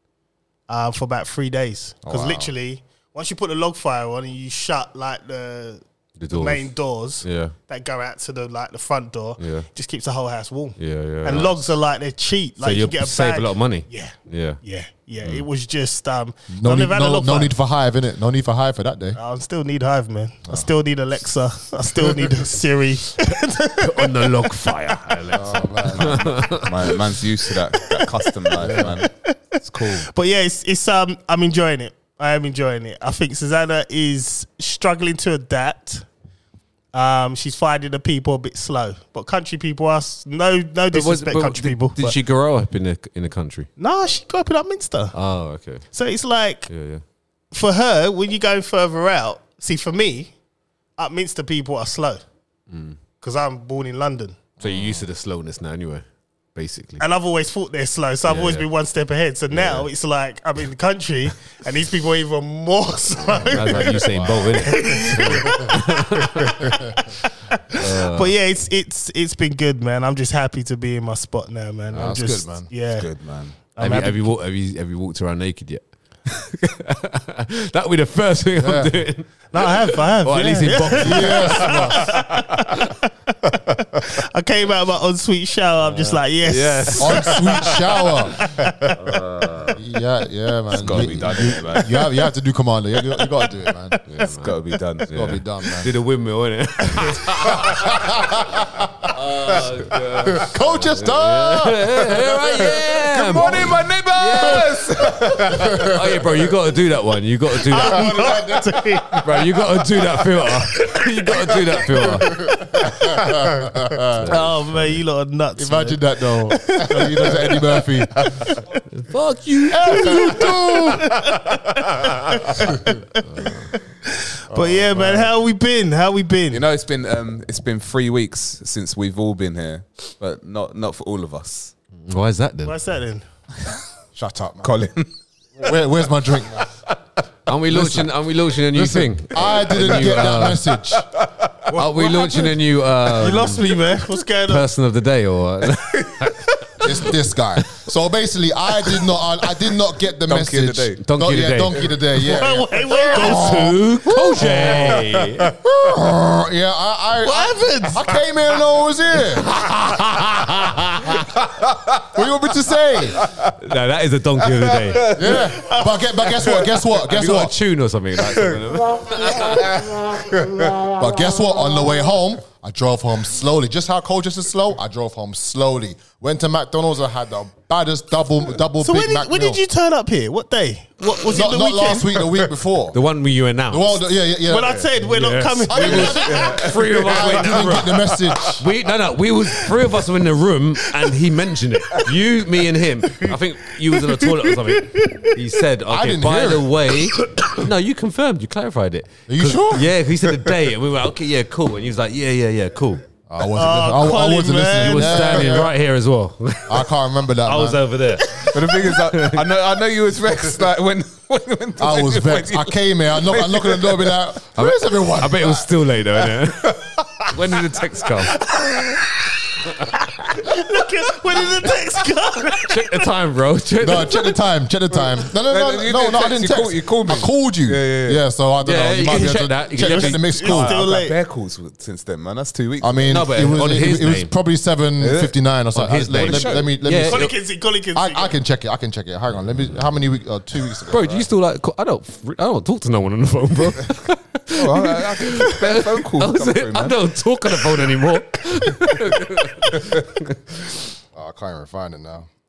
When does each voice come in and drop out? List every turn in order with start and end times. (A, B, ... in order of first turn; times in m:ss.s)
0:00.7-0:17.5 A
0:02.0-0:02.5 B
0:06.2-0:07.5 C
0:09.4-0:09.6 C
0:10.8-0:11.7 C
0:12.6-0:14.6 C
0:16.5-0:19.2 B
0:19.1-0:24.4 A
0:23.8-0:26.9 C
0:25.3-0:26.4 B
0:26.1-0:29.1 D
0:27.9-0:36.0 A
0:28.6-0:29.0 B
0:29.7-0:30.1 D
0:36.9-0:42.2 A
0:40.9-0:43.7 C
0:43.8-0:45.1 A
0:45.1-0:45.8 C
0:45.9-0:46.7 A
0:46.7-0:47.0 C
0:47.5-0:50.3 A
0:51.0-0:52.2 A
0:52.7-0:53.0 C
0:53.2-0:54.4 A
0:54.6-0:55.0 B
0:54.6-0:57.0 C
0:57.0-1:13.1 A
0:58.3-0:58.6 C
0:59.5-0:59.9 C
1:03.4-1:06.7 C
1:03.5-1:05.6 B
1:07.7-1:08.3 C
1:11.9-1:12.7 B
1:12.9-1:13.6 D
1:13.6-1:14.2 A
1:13.8-1:22.0 C
1:18.6-1:18.9 B
1:19.5-1:29.0 A
1:21.0-1:22.2 B
1:25.8-1:27.7 C
1:27.0-1:28.5 B
1:28.9-1:29.8 C
1:29.7-1:34.0 B
1:30.7-1:32.0 D
1:30.8-1:31.3 C
1:33.1-1:34.0 A
1:34.1-1:34.5 C
1:34.2-1:35.1 D
1:35.1-1:38.4 C
1:35.1-1:35.9 B
1:37.5-1:39.1 B
1:39.1-1:48.2 C
1:40.2-1:42.8 B
1:43.0-1:45.7 D
1:45.0-1:46.4 B
1:47.6-1:49.5 A
1:47.7-1:49.2 B
1:49.2-1:52.4 C
1:50.8-1:53.3 A
1:52.2-1:54.3 B
1:54.1-1:54.9 C
1:54.2-1:58.7 A
1:55.6-1:58.6 B
1:58.9-2:00.5 C
1:59.7-2:02.7 B
1:59.8-2:06.6 A
2:03.3-2:03.7 C
2:04.5-2:05.3 B
2:06.5-2:11.7 D
2:12.0-2:12.8 C
2:12.6-2:13.2 A
2:14.1-2:14.8 B
2:14.6-2:15.1 D
2:15.6-2:16.7 B
2:17.4-2:20.6 C
2:17.7-2:18.1 B
2:18.7-2:21.1 B
2:19.4-2:21.7 D
2:21.7-2:23.7 C
2:21.7-2:22.5 A
2:23.0-2:24.7 A
2:24.5-2:26.8 C
2:26.7-2:27.1 A
2:26.8-2:41.2 B
2:30.3-2:31.0 D
2:31.0-2:31.8 C
2:32.2-2:33.7 A
2:33.1-2:35.5 C
2:34.5-2:34.8 A
2:37.2-2:38.2 A
2:39.7-2:40.7 C
2:41.6-2:42.0 D
2:42.0-2:43.2 B
2:43.1-2:43.6 D
2:43.6-2:45.1 C
2:44.5-2:45.6 D
2:45.1-2:47.5 B
2:45.2-2:46.6 A
2:46.3-2:46.8 D
2:47.0-2:49.7 C
2:49.5-2:50.7 D
2:50.8-2:59.6 B
2:58.8-3:02.4 A
3:01.2-3:03.0 B
3:02.9-3:04.0 C
3:03.7-3:04.9 B
3:04.5-3:06.7 A
3:05.0-3:23.0 C
3:05.7-3:08.6 B
3:05.9-3:08.6 D
3:13.9-3:15.3 A
3:15.9-3:16.9 B
3:19.3-3:19.9 B
3:23.3-3:25.7 B
3:23.5-3:25.6 A
3:24.7-3:29.4 C
3:26.7-3:27.8 B
3:28.4-3:34.2 D
3:31.8-3:35.7 B
3:34.6-3:38.4 C
3:38.4-3:39.1 A
3:40.2-3:43.0 A
3:42.6-3:44.2 C
3:43.8-3:50.8 B
3:45.4-3:48.2 D
3:48.6-3:50.2 C
3:49.8-3:51.2 A
3:50.4-3:53.4 D
3:52.8-3:57.3 B
3:53.1-3:54.3 C
3:55.0-3:55.3 D
3:55.7-3:57.3 C
3:56.1-3:56.7 D
3:57.0-3:58.3 A
3:57.9-4:01.3 B
4:00.9-4:10.6 C
4:04.5-4:07.0 D
4:11.1-4:12.3 B